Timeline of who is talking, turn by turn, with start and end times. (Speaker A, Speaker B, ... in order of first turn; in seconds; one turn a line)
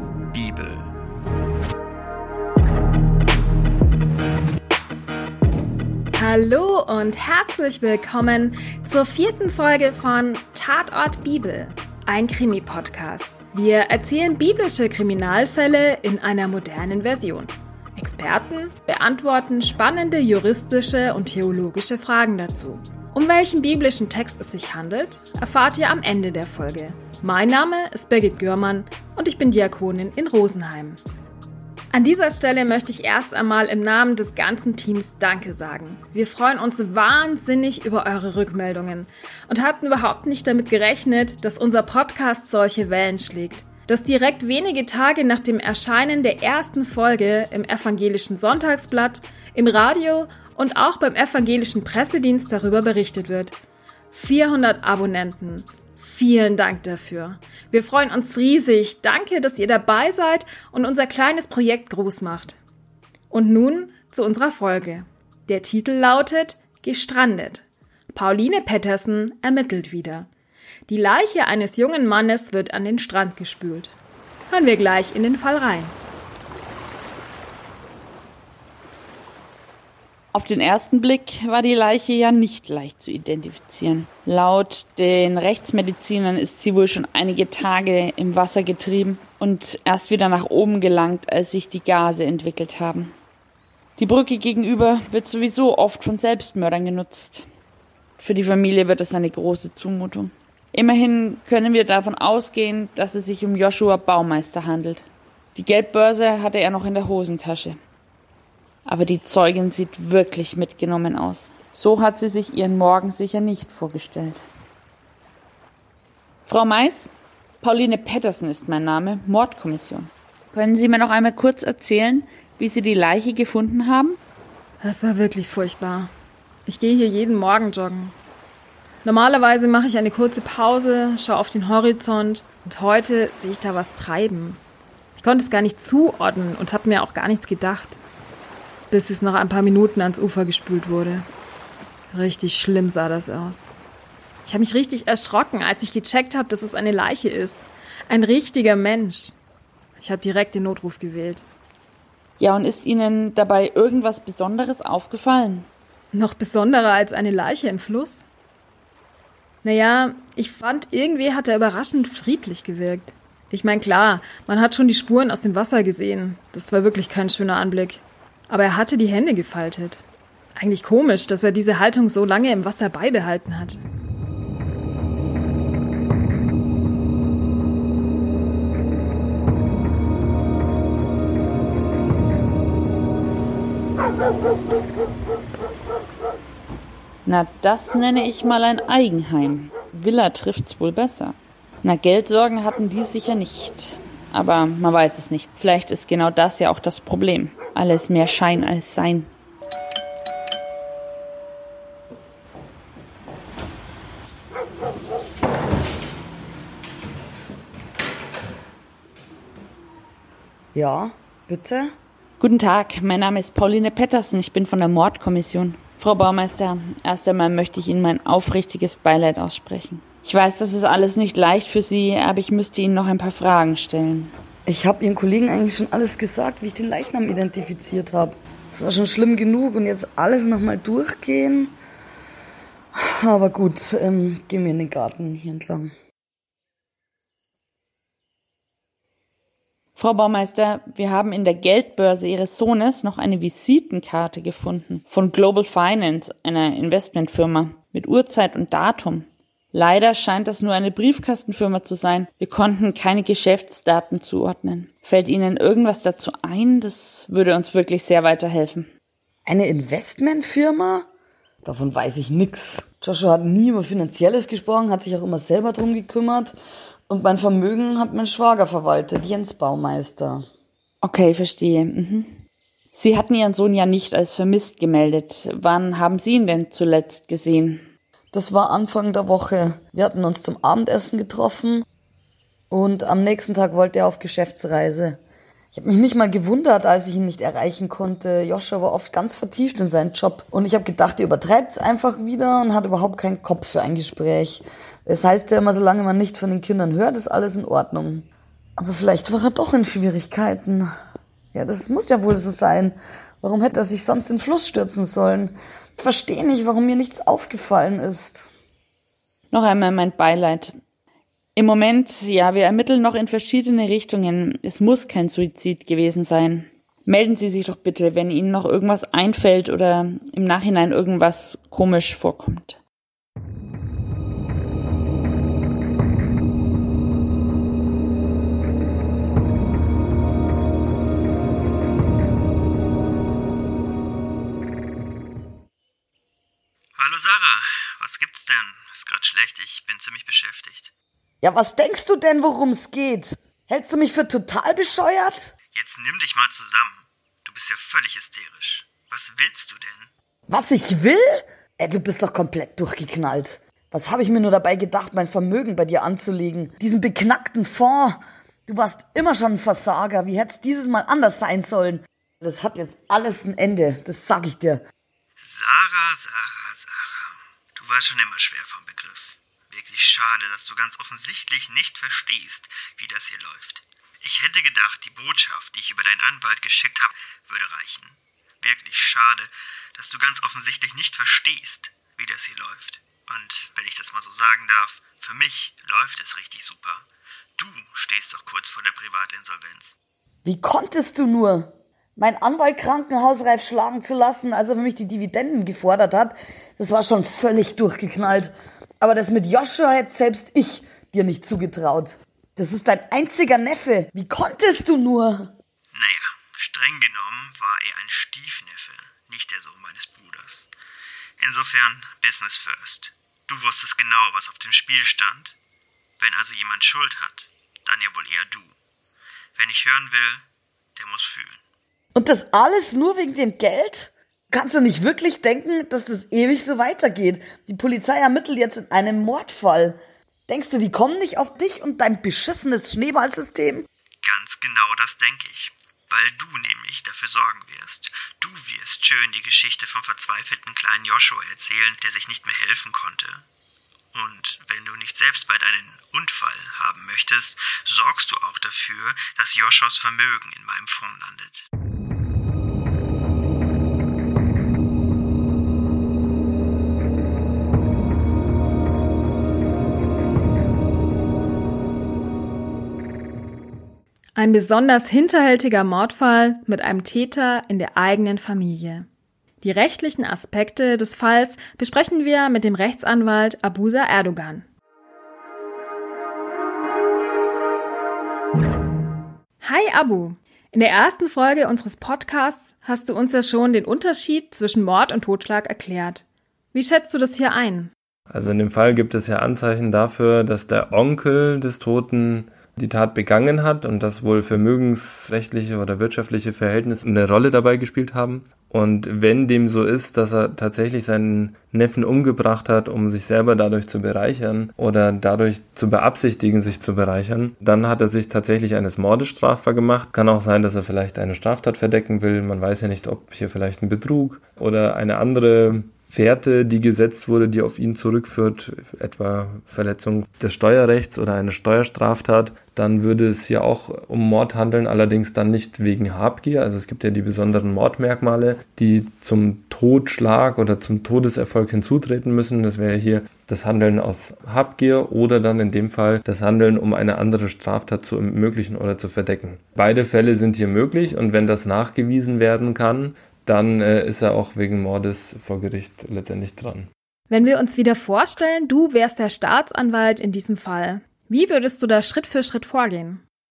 Speaker A: 0.3-0.7
Speaker B: 6.1-31.0
Speaker B: 31.9-53.5
Speaker B: 54.1-62.6
Speaker B: 63.3-70.3
Speaker B: 70.9-73.9
Speaker B: 74.5-75.9
Speaker C: 80.3-93.1
Speaker C: 94.0-97.4
Speaker C: 98.2-107.8
Speaker C: 108.9-114.4
Speaker C: 116.5-124.2
Speaker B: 124.8-126.1
Speaker B: 126.7-128.1
Speaker B: 129.0-134.6
Speaker B: 135.2-138.0
Speaker B: 138.9-141.2
Speaker B: 142.1-143.7
Speaker B: 144.4-149.3
Speaker B: 150.0-151.4
Speaker C: 152.4-155.7
Speaker B: 156.1-158.2
Speaker B: 159.6-170.0
Speaker B: 170.6-173.8
Speaker C: 187.2-199.3
Speaker D: 210.7-211.9
Speaker C: 212.4-224.3
Speaker D: 224.7-231.7
Speaker D: 232.9-235.9
Speaker C: 239.9-258.9
Speaker D: 259.4-261.1
Speaker D: 261.6-266.6
Speaker D: 267.1-270.5
Speaker C: 271.0-272.4
Speaker C: 272.9-277.8
Speaker D: 278.3-281.8
Speaker D: 282.7-285.2
Speaker D: 285.7-298.3
Speaker D: 298.8-300.9
Speaker D: 301.5-308.5
Speaker C: 309.5-310.8
Speaker C: 311.6-322.8
Speaker A: 336.9-340.9
Speaker D: 341.4-345.5
Speaker A: 345.7-350.1
Speaker D: 350.5-364.8
Speaker A: 365.4-387.1
Speaker A: 387.6-389.9
Speaker D: 390.4-405.5
Speaker A: 405.9-410.7
Speaker A: 411.4-415.6
Speaker A: 416.2-418.8
Speaker A: 419.6-421.6
Speaker D: 422.1-433.9
Speaker A: 434.2-443.4
Speaker A: 444.1-451.6
Speaker B: 464.4-469.1
Speaker B: 469.6-474.6
Speaker B: 479.6-487.9
Speaker E: 488.3-546.9
Speaker B: 547.3-553.2